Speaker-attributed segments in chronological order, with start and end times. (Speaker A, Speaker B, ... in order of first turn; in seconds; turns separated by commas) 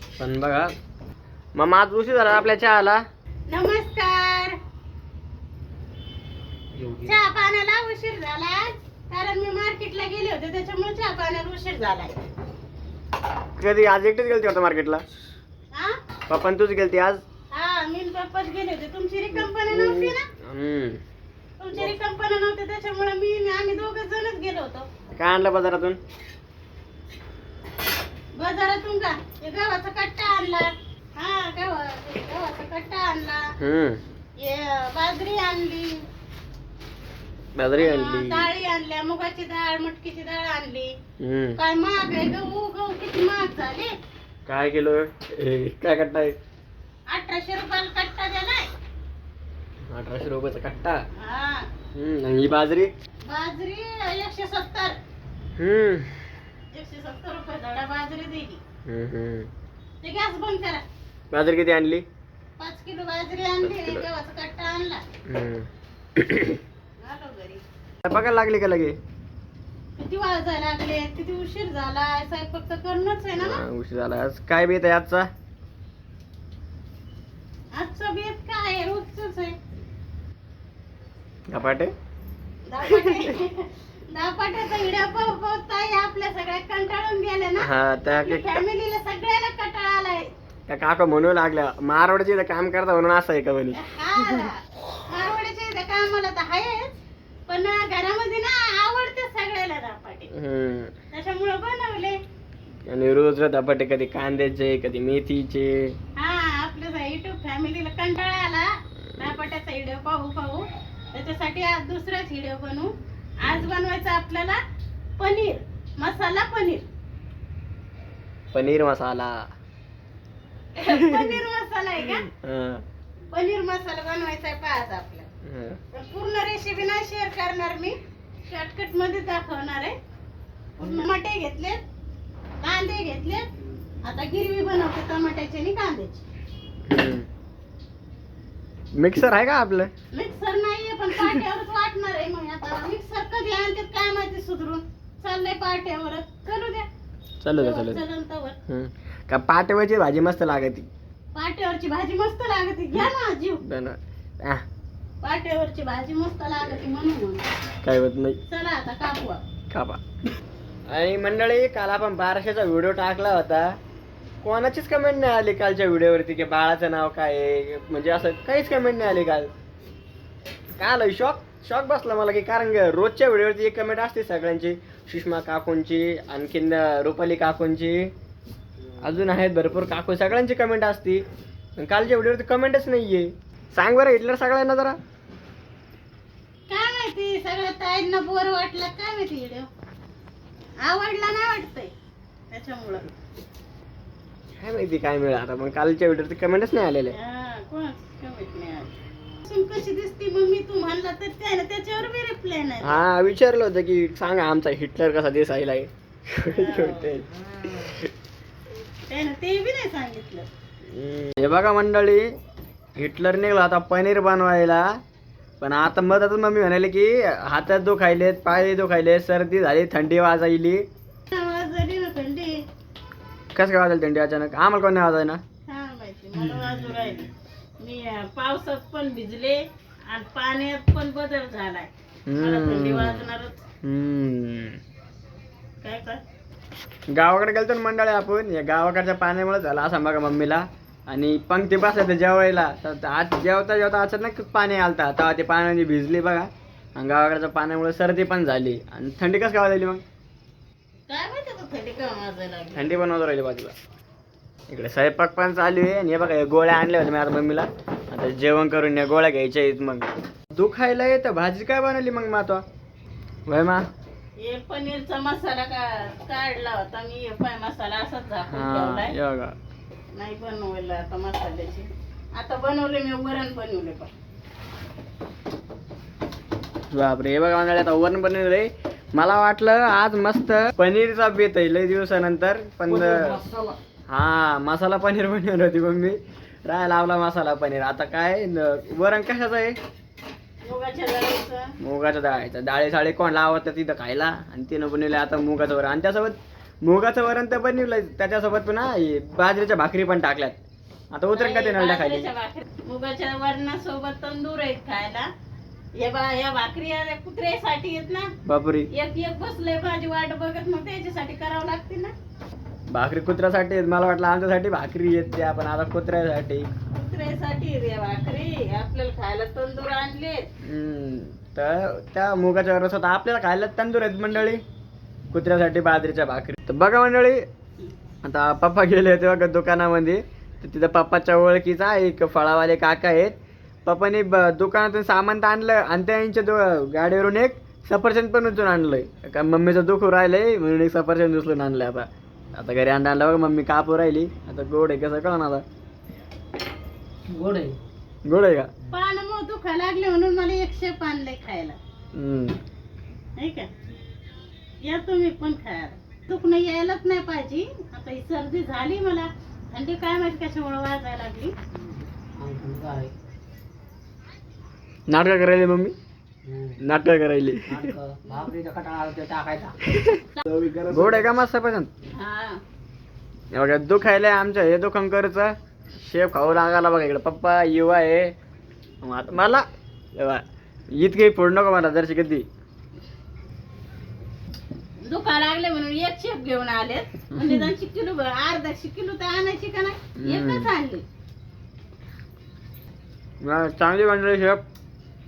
Speaker A: 0.2-0.7, Speaker A: 1.6-3.0, Speaker B: 3.5-4.6, Speaker B: 7.0-12.1, Speaker A: 13.6-15.0, Speaker B: 15.7-16.0, Speaker A: 16.3-17.2, Speaker B: 17.5-20.3, Speaker A: 19.3-21.0, Speaker B: 21.6-24.9, Speaker A: 25.2-26.0, Speaker B: 28.4-33.5, Speaker A: 33.6-34.0, Speaker B: 34.4-36.0, Speaker A: 37.5-38.5, Speaker B: 37.8-40.9, Speaker A: 41.2-41.6, Speaker B: 41.6-43.9, Speaker A: 44.5-46.4, Speaker B: 47.1-48.7, Speaker A: 49.9-51.0, Speaker B: 51.2-51.7, Speaker A: 52.0-52.9, Speaker B: 53.3-55.0, Speaker A: 55.6-56.1, Speaker B: 56.7-58.6, Speaker A: 58.9-59.5, Speaker B: 60.0-60.9, Speaker A: 61.3-62.0, Speaker B: 62.6-65.0, Speaker A: 63.6-64.1, Speaker A: 65.3-66.6, Speaker B: 67.0-67.6, Speaker A: 68.0-69.0, Speaker B: 70.0-73.6, Speaker A: 73.3-75.3, Speaker B: 77.7-79.6, Speaker A: 81.5-81.9, Speaker B: 82.7-90.3, Speaker A: 82.8-83.3, Speaker A: 87.6-88.6, Speaker A: 90.7-94.5, Speaker B: 93.7-100.3, Speaker A: 100.3-100.9, Speaker B: 101.1-102.2, Speaker A: 102.9-106.0, Speaker B: 106.2-112.9, Speaker B: 113.4-114.6, Speaker B: 115.2-116.9, Speaker A: 118.5-119.4, Speaker B: 120.8-122.3, Speaker A: 120.8-121.4, Speaker A: 122.3-122.8, Speaker B: 123.3-125.3, Speaker A: 125.4-125.8, Speaker B: 125.9-128.0, Speaker B: 128.5-130.0, Speaker B: 130.8-131.8, Speaker B: 132.6-133.5, Speaker B: 134.0-136.2, Speaker A: 136.9-137.3, Speaker A: 139.0-139.9, Speaker B: 140.1-146.9, Speaker A: 147.4-148.0, Speaker B: 147.5-148.6, Speaker A: 148.7-150.9, Speaker B: 151.3-153.6, Speaker A: 153.7-154.6, Speaker B: 155.2-157.5, Speaker A: 157.8-158.4, Speaker B: 158.5-159.4, Speaker A: 159.7-160.0, Speaker A: 160.9-163.8, Speaker A: 164.4-169.5, Speaker A: 170.8-178.1, Speaker A: 179.0-181.2, Speaker A: 181.8-185.0, Speaker B: 186.7-189.7, Speaker B: 190.8-191.9, Speaker B: 192.5-193.0, Speaker A: 194.6-197.2, Speaker B: 197.1-203.0, Speaker A: 202.8-208.0, Speaker B: 206.5-207.2, Speaker B: 209.1-210.5, Speaker A: 210.9-212.2, Speaker A: 213.0-215.0, Speaker A: 215.6-220.8, Speaker B: 221.3-222.6, Speaker A: 223.6-225.4, Speaker B: 225.7-233.6, Speaker A: 226.4-227.1, Speaker A: 232.3-233.3, Speaker A: 233.8-234.8, Speaker B: 235.8-236.2, Speaker A: 237.1-250.0, Speaker B: 251.1-253.0, Speaker A: 252.8-253.7, Speaker A: 254.7-262.6, Speaker A: 263.5-263.8, Speaker B: 264.4-269.1, Speaker A: 268.5-269.6, Speaker B: 270.1-274.1, Speaker A: 276.9-283.4, Speaker C: 282.9-283.8, Speaker A: 284.1-289.8, Speaker B: 290.6-291.8, Speaker A: 291.8-300.6, Speaker A: 301.1-302.3, Speaker B: 301.3-305.3, Speaker B: 306.0-308.3, Speaker A: 308.4-308.9, Speaker B: 308.9-312.1, Speaker A: 312.9-316.7, Speaker B: 316.9-320.5, Speaker A: 320.6-324.6, Speaker A: 325.3-327.4, Speaker A: 328.2-345.6, Speaker C: 347.3-347.8, Speaker A: 348.3-348.7, Speaker B: 348.9-351.8, Speaker A: 352.1-352.6, Speaker B: 353.4-353.7, Speaker B: 354.8-361.5, Speaker C: 361.9-363.1, Speaker A: 365.1-365.9, Speaker C: 366.4-366.8, Speaker A: 366.8-367.9, Speaker C: 367.7-371.3, Speaker A: 370.9-371.9, Speaker B: 372.1-372.6, Speaker A: 373.5-378.3, Speaker A: 379.0-380.4, Speaker A: 380.9-382.5, Speaker B: 385.0-391.0, Speaker A: 387.4-387.7, Speaker A: 390.2-390.7, Speaker A: 393.4-394.6